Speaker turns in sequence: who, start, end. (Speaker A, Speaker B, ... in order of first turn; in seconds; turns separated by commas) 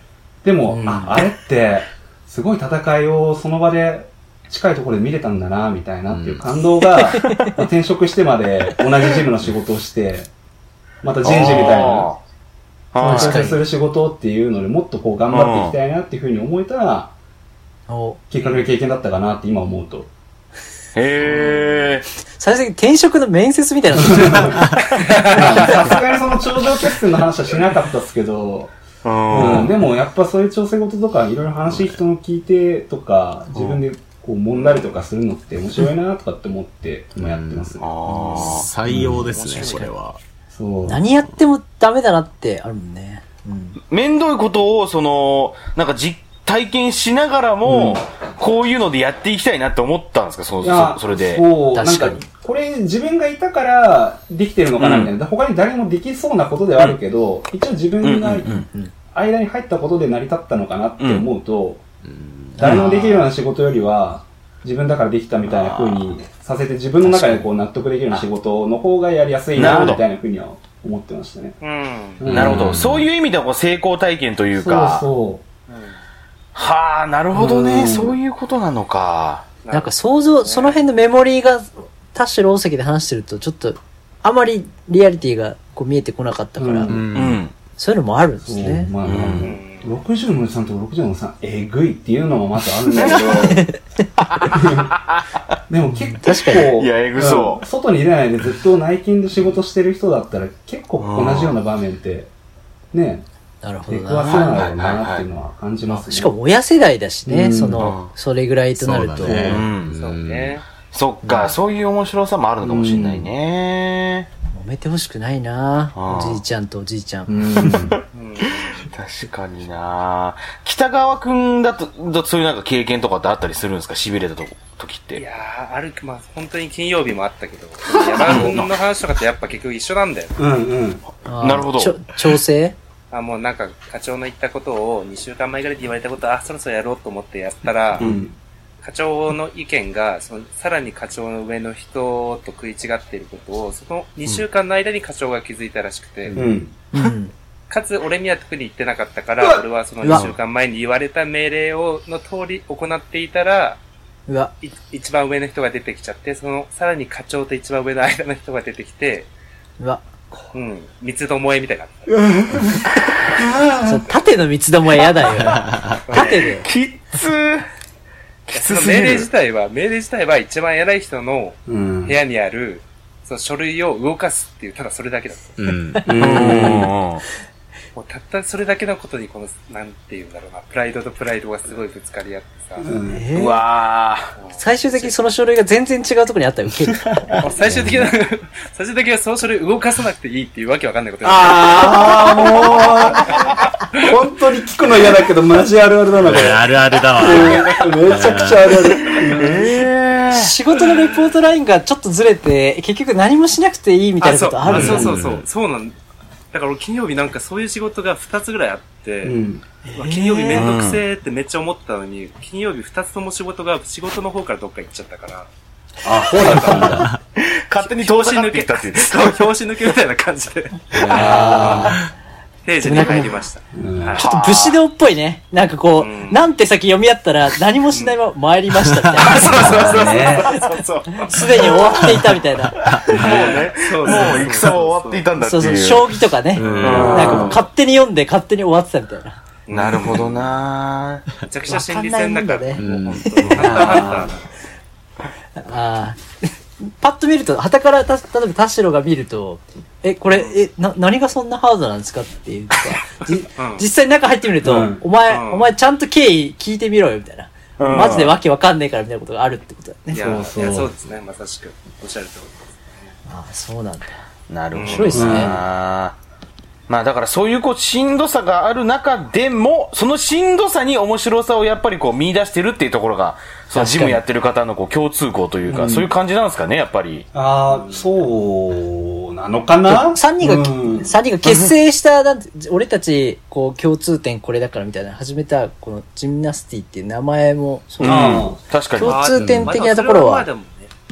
Speaker A: 0.4-10.3, Speaker B: 0.7-1.2, Speaker C: 6.1-6.5, Speaker B: 7.2-7.5, Speaker A: 11.0-12.1, Speaker D: 11.2-12.2, Speaker D: 12.9-13.6, Speaker A: 13.0-17.1, Speaker B: 13.0-13.6, Speaker D: 15.3-15.8, Speaker B: 17.9-18.2, Speaker A: 18.3-20.1, Speaker D: 20.9-22.1, Speaker B: 22.4-24.7, Speaker A: 24.0-28.7, Speaker E: 24.9-25.5, Speaker D: 25.3-25.8, Speaker D: 29.0-29.8, Speaker A: 29.3-37.9, Speaker C: 31.7-32.0, Speaker E: 34.5-34.9, Speaker C: 37.2-37.8, Speaker D: 37.8-38.7, Speaker C: 38.3-40.2, Speaker B: 38.3-38.6, Speaker A: 38.9-39.3, Speaker E: 39.4-39.7, Speaker B: 39.5-39.9, Speaker A: 40.5-41.0, Speaker B: 40.9-43.8, Speaker D: 43.9-51.5, Speaker A: 47.6-48.0, Speaker A: 50.6-58.6, Speaker B: 51.7-52.2, Speaker D: 54.8-55.1, Speaker D: 58.0-58.7, Speaker B: 58.5-58.9, Speaker A: 59.1-61.8, Speaker D: 61.0-61.3, Speaker C: 62.1-62.6, Speaker B: 62.6-63.2, Speaker A: 62.6-71.6, Speaker D: 62.6-63.1, Speaker D: 65.5-66.1, Speaker B: 67.0-67.5, Speaker D: 69.5-70.0, Speaker E: 71.6-72.3, Speaker A: 72.2-73.0, Speaker D: 72.3-75.1, Speaker C: 72.3-73.1, Speaker A: 74.6-75.5, Speaker E: 75.7-76.0, Speaker D: 76.5-79.5, Speaker A: 77.3-78.2, Speaker E: 79.6-80.8, Speaker B: 79.7-87.0, Speaker A: 86.6-87.1, Speaker C: 86.9-87.4, Speaker D: 87.1-87.5, Speaker B: 87.8-88.9, Speaker A: 88.4-93.7, Speaker D: 89.0-89.5, Speaker E: 89.4-90.0, Speaker D: 93.0-93.5, Speaker B: 93.3-93.8, Speaker D: 94.2-95.2, Speaker A: 94.4-95.0, Speaker A: 95.7-102.3, Speaker B: 95.9-96.7, Speaker D: 96.5-97.6, Speaker D: 101.0-101.6, Speaker A: 102.9-103.3, Speaker B: 103.6-104.5, Speaker A: 103.9-106.3, Speaker D: 104.3-105.2, Speaker B: 105.9-109.6, Speaker A: 107.3-108.0, Speaker D: 107.8-108.1, Speaker C: 108.8-110.5, Speaker A: 109.2-109.7, Speaker D: 109.3-110.2, Speaker E: 110.0-110.6, Speaker D: 110.9-114.3, Speaker B: 111.2-111.5, Speaker A: 112.6-113.3, Speaker B: 114.5-117.3, Speaker D: 116.0-116.4, Speaker A: 117.3-118.0, Speaker D: 117.6-125.2, Speaker E: 118.1-118.9, Speaker E: 125.2-130.4, Speaker D: 127.9-128.7, Speaker A: 128.3-128.6, Speaker A: 130.4-131.0, Speaker B: 131.3-132.8, Speaker D: 131.4-132.1, Speaker E: 133.1-138.1, Speaker A: 138.0-138.4, Speaker E: 138.8-146.4, Speaker A: 146.3-146.7, Speaker B: 146.9-147.3, Speaker E: 147.7-153.8, Speaker A: 149.4-149.6, Speaker B: 150.0-150.3, Speaker D: 150.1-150.4, Speaker B: 154.3-154.5, Speaker E: 154.6-159.3, Speaker B: 159.8-160.4, Speaker E: 160.5-162.2, Speaker A: 162.1-164.1, Speaker B: 163.8-166.7, Speaker C: 165.4-166.0, Speaker E: 166.1-166.5, Speaker D: 166.1-167.7, Speaker D: 168.5-169.3, Speaker E: 168.5-175.7, Speaker A: 171.7-172.2, Speaker C: 175.6-176.0, Speaker B: 176.0-176.9, Speaker A: 176.1-176.9, Speaker D: 176.1-177.2, Speaker E: 177.9-182.9, Speaker A: 182.8-183.2, Speaker B: 183.1-183.6, Speaker D: 183.3-184.3, Speaker E: 184.4-185.2, Speaker B: 184.6-187.2, Speaker E: 187.4-194.1, Speaker A: 187.6-188.1, Speaker A: 191.2-199.8, Speaker C: 196.2-198.8, Speaker E: 197.3-197.9, Speaker D: 199.4-200.5, Speaker B: 200.3-205.2, Speaker E: 200.8-201.3, Speaker E: 204.2-205.9, Speaker C: 204.7-205.4, Speaker A: 204.7-205.2, Speaker E: 206.5-209.4, Speaker A: 209.2-209.6, Speaker B: 209.9-210.7, Speaker E: 209.9-215.5, Speaker D: 210.5-211.0, Speaker A: 216.0-217.1, Speaker E: 216.2-217.1, Speaker C: 216.8-217.2, Speaker D: 217.4-219.5, Speaker E: 217.8-221.9, Speaker A: 221.0-222.0, Speaker B: 221.1-222.0, Speaker E: 222.6-224.2, Speaker B: 222.8-223.4, Speaker A: 223.8-224.2, Speaker D: 224.2-224.8, Speaker B: 224.2-232.8, Speaker E: 226.0-226.4, Speaker E: 227.9-228.2, Speaker E: 229.2-232.0, Speaker A: 229.6-230.6, Speaker D: 229.6-231.8, Speaker C: 232.0-232.2, Speaker D: 232.8-236.2, Speaker C: 232.8-233.2, Speaker E: 233.1-235.3, Speaker A: 233.2-233.6, Speaker B: 235.4-239.4, Speaker C: 236.6-237.5, Speaker E: 236.6-237.6, Speaker D: 236.8-237.6, Speaker E: 239.7-240.3, Speaker D: 239.7-241.3, Speaker E: 241.5-244.6, Speaker B: 241.7-244.1, Speaker C: 242.8-243.9, Speaker A: 243.6-244.3, Speaker B: 245.6-260.5, Speaker E: 250.3-250.6, Speaker E: 253.2-253.9, Speaker A: 254.6-255.1, Speaker E: 255.3-255.7, Speaker D: 257.8-258.4, Speaker E: 260.1-263.1, Speaker A: 260.1-260.9, Speaker B: 263.3-264.2, Speaker D: 264.5-266.2, Speaker E: 264.7-265.4, Speaker B: 264.8-265.6, Speaker A: 265.1-265.6, Speaker D: 266.9-277.3, Speaker B: 273.7-274.2, Speaker A: 275.7-276.1, Speaker A: 277.3-281.1, Speaker E: 277.7-278.1, Speaker B: 279.9-290.5, Speaker D: 288.0-289.2, Speaker A: 288.0-288.6, Speaker E: 289.0-290.9, Speaker C: 289.4-289.8